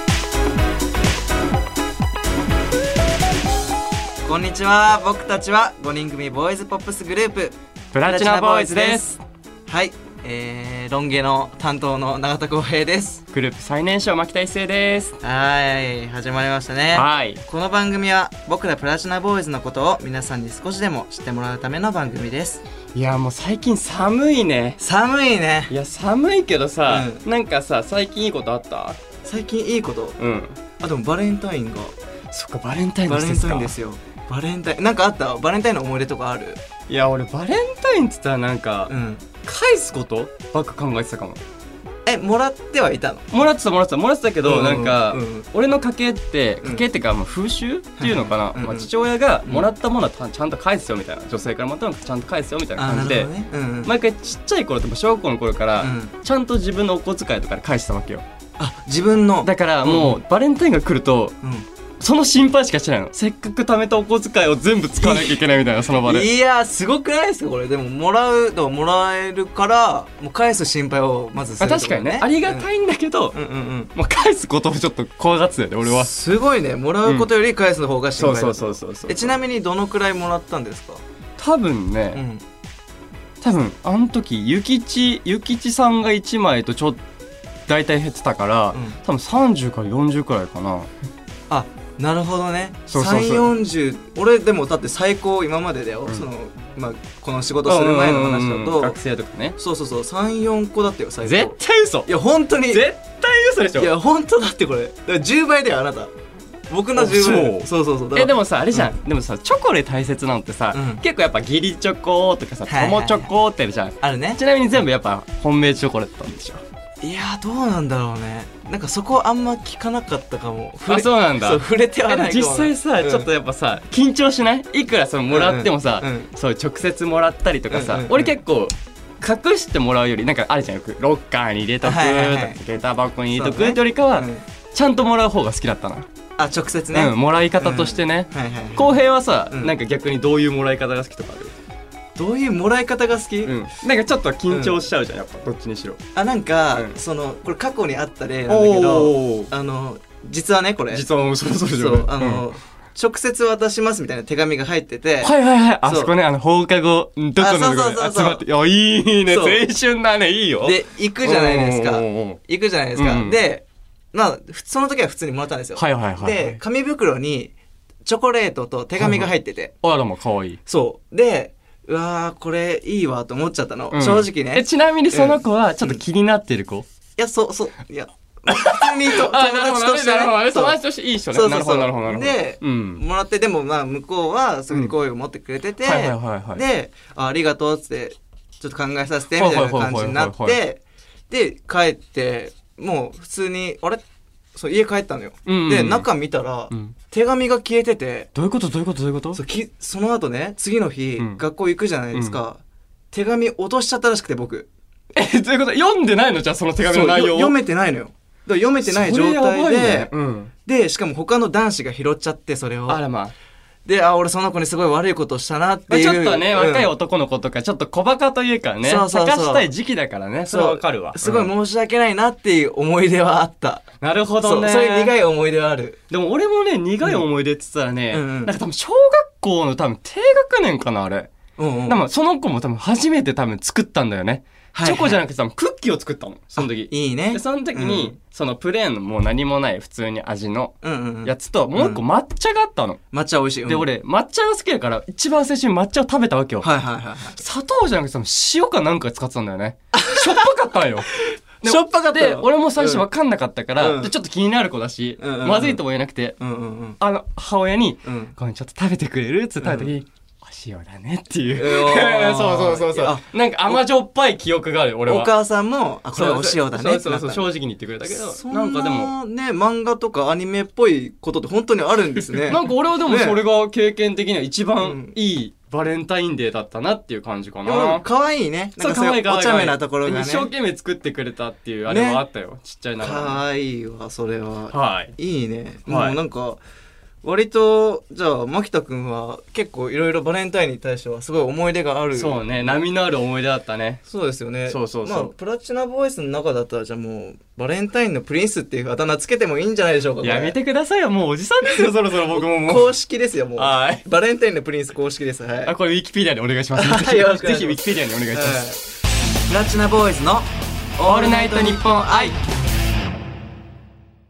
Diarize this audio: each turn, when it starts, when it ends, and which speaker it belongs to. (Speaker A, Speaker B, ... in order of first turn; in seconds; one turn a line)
Speaker A: 4.2-9.1
Speaker B: 7.9-9.2
Speaker A: 9.7-13.2
Speaker B: 13.3-15.2
Speaker A: 15.2-22.6
Speaker B: 16.9-17.4
Speaker B: 22.9-24.8
Speaker A: 24.8-25.7
Speaker B: 25.7-29.0
Speaker A: 26.9-27.2
Speaker A: 29.2-30.1
Speaker B: 30.2-30.5
Speaker A: 30.8-31.9
Speaker B: 32.3-33.7
Speaker A: 33.0-36.6
Speaker B: 36.9-38.9
Speaker A: 38.9-39.2
Speaker B: 39.4-41.4
Speaker A: 42.0-43.3
Speaker B: 43.3-53.3
Speaker A: 44.4-45.5
Speaker A: 48.0-48.9
Speaker A: 52.8-53.9
Speaker B: 53.8-58.2
Speaker A: 55.8-56.1
Speaker A: 58.6-60.2
Speaker B: 59.4-61.3
Speaker A: 61.4-61.7
Speaker B: 62.0-66.3
Speaker A: 65.0-65.4
Speaker A: 66.0-72.7
Speaker B: 71.6-73.4
Speaker A: 73.3-73.9
Speaker B: 73.9-76.1
Speaker A: 75.8-81.0
Speaker B: 78.2-79.4
Speaker B: 81.4-82.2
Speaker A: 82.1-82.4
Speaker B: 83.4-87.0
Speaker B: 87.7-90.9
Speaker A: 91.5-99.0
Speaker B: 92.9-93.5
Speaker B: 97.6-99.5
Speaker A: 99.6-102.9
Speaker B: 101.2-102.1
Speaker B: 102.7-103.9
Speaker A: 103.8-106.1
Speaker A: 106.7-109.0
Speaker B: 106.9-116.6
Speaker A: 110.7-111.0
Speaker A: 112.7-113.3
Speaker A: 114.0-114.4
Speaker A: 117.0-123.2
Speaker B: 120.8-136.1
Speaker A: 125.3-126.3
Speaker A: 127.7-128.3
Speaker A: 131.8-132.6
Speaker A: 133.3-134.4
Speaker A: 136.4-139.7
Speaker B: 136.9-141.5
Speaker A: 142.2-143.5
Speaker B: 143.4-146.0
Speaker A: 144.5-144.8
Speaker A: 146.1-155.3
Speaker B: 148.5-149.5
Speaker B: 150.9-152.4
Speaker B: 155.2-162.4
Speaker A: 155.8-156.1
Speaker A: 157.4-158.4
Speaker A: 159.3-159.6
Speaker A: 160.6-167.5
Speaker B: 162.9-163.4
Speaker B: 165.8-166.6
Speaker A: 168.1-169.7
Speaker B: 169.0-169.3
Speaker B: 169.8-170.6
Speaker A: 170.7-176.0
Speaker B: 173.9-176.8
Speaker A: 177.2-180.8
Speaker B: 178.5-183.0
Speaker A: 181.3-194.0
Speaker B: 185.8-186.6
Speaker B: 189.3-190.6
Speaker A: 194.5-198.3
Speaker B: 195.4-196.1
Speaker B: 198.3-199.4
Speaker A: 199.3-202.6
Speaker B: 202.1-202.4
Speaker A: 203.1-204.7
Speaker B: 205.1-207.5
Speaker A: 206.8-210.1
Speaker B: 208.8-210.5
Speaker A: 210.6-213.0
Speaker B: 212.9-213.3
Speaker A: 213.8-216.9
Speaker B: 215.9-221.5
Speaker A: 218.8-219.7
Speaker A: 220.5-223.8
Speaker B: 224.0-225.1
Speaker A: 224.4-226.0
Speaker B: 226.1-231.3
Speaker A: 228.1-228.5
Speaker A: 231.6-232.0
Speaker B: 231.9-243.0
Speaker A: 234.7-235.2
Speaker A: 236.6-238.1
Speaker A: 240.8-242.0
Speaker A: 243.1-243.9
Speaker B: 243.7-246.7
Speaker A: 246.6-247.4
Speaker B: 247.4-251.1
Speaker A: 249.9-250.4
Speaker B: 251.6-256.4
Speaker A: 251.6-253.0
Speaker A: 253.8-254.1
Speaker A: 255.2-255.8
Speaker A: 256.4-257.0
Speaker B: 257.0-265.3
Speaker A: 258.0-258.3
Speaker A: 259.6-259.9
Speaker A: 261.5-263.8
Speaker A: 265.1-267.5
Speaker B: 266.1-269.1
Speaker A: 268.1-273.4
Speaker B: 272.5-278.1
Speaker A: 274.8-275.1
Speaker A: 277.6-280.5
Speaker B: 278.8-283.4
Speaker A: 281.9-282.2
Speaker A: 283.0-286.6
Speaker B: 284.7-285.1
Speaker B: 285.9-286.1
Speaker A: 287.2-292.8
Speaker B: 292.1-294.0
Speaker A: 294.1-300.5
Speaker B: 294.7-295.3
Speaker B: 300.2-302.9
Speaker A: 301.7-305.7
Speaker B: 303.6-304.1
Speaker B: 305.6-308.6
Speaker A: 306.7-308.8
Speaker A: 309.5-312.4
Speaker B: 311.0-312.4